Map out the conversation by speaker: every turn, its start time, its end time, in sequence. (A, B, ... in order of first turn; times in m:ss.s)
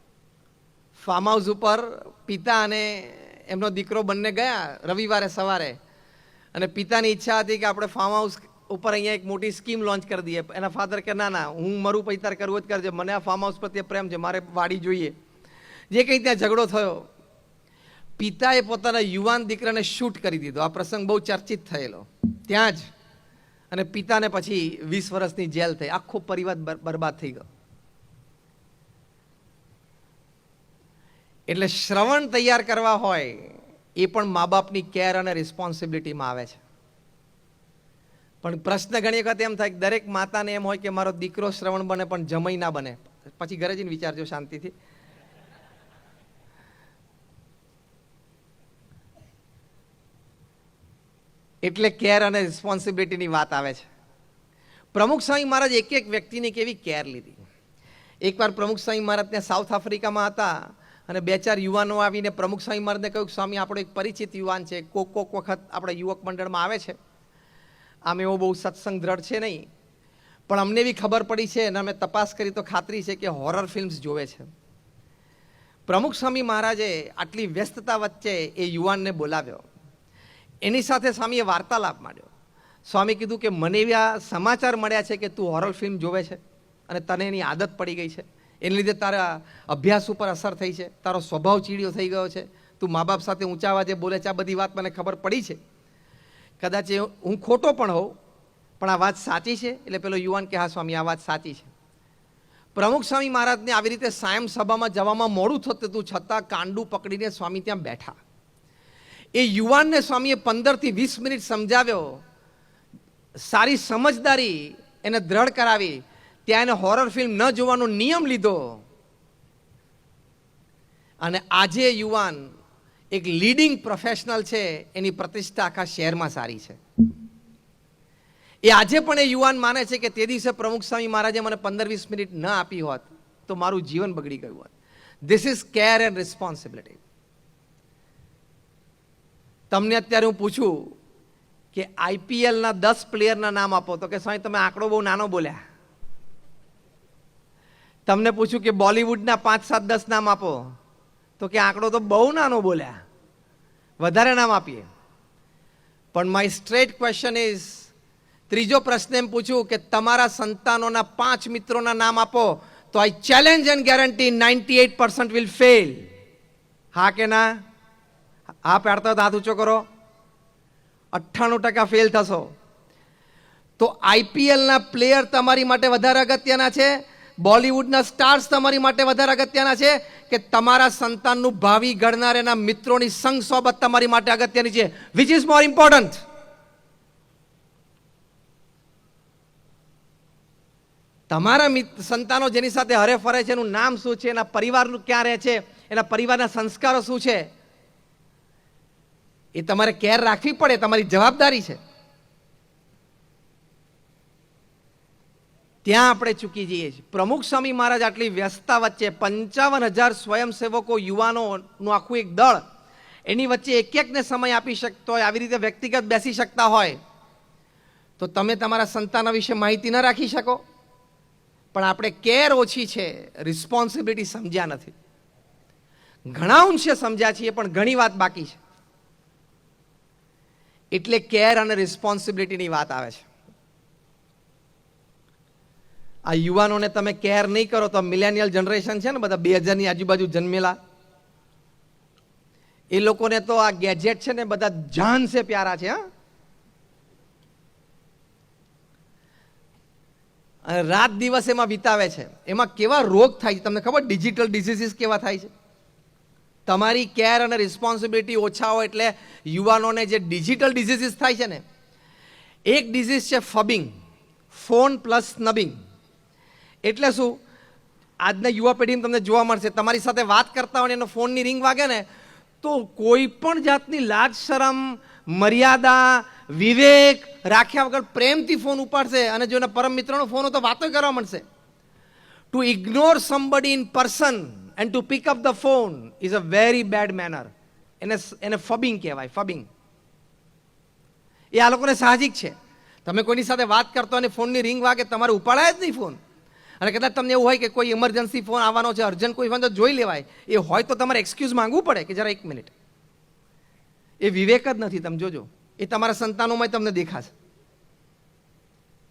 0:01.0-0:05.8 A
0:06.5-0:15.1 A
0:15.9-0:17.1 A
0:18.2-0:22.9 A
0:23.7-0:27.4 A
0:31.5-0:36.6 A
0:38.4-0:44.7 A
0:51.6-0:53.9 A
0:54.9-0:57.4 A
0:58.2-1:07.0 A
1:08.1-1:09.7 A
1:10.5-1:14.5 A
1:15.9-1:19.6 A
1:20.6-1:22.3 A
1:22.9-1:35.6 A
1:36.6-1:38.1 A
1:38.8-1:41.7 A
1:42.8-1:48.2 A
1:49.4-1:52.2 A
1:53.4-1:58.8 A
2:01.2-2:02.5 A
2:03.1-2:06.8 A
2:08.6-2:14.7 A
2:15.2-2:17.0 A
2:19.7-2:20.9 A
2:21.7-2:25.6 A
2:28.1-2:30.7 A
2:31.4-2:33.0 A
2:34.0-2:34.9 A
2:36.1-2:37.9 A
2:38.5-2:46.1 A
2:46.9-2:47.6 A
2:48.6-2:49.9 A
2:51.1-2:52.5 A
2:53.8-3:06.2 A
3:11.3-3:17.5 A
3:19.6-3:21.8 A
3:25.8-3:32.6 A
3:33.3-3:37.0 A
3:38.2-3:40.6 A
3:41.7-3:44.9 A
3:46.3-3:48.6 A
3:50.9-3:53.3 A
3:56.3-4:00.8 A
4:02.9-4:06.0 A
4:10.7-4:15.5 A
4:16.7-4:21.6 A
4:22.7-4:23.9 A
4:24.5-4:25.8 A
4:26.8-4:27.4 A
4:28.2-4:32.1 A
4:32.6-4:41.4 A
4:42.5-4:49.7 A
4:51.5-4:56.2 A
4:56.8-5:02.7 A
5:04.2-5:07.3 A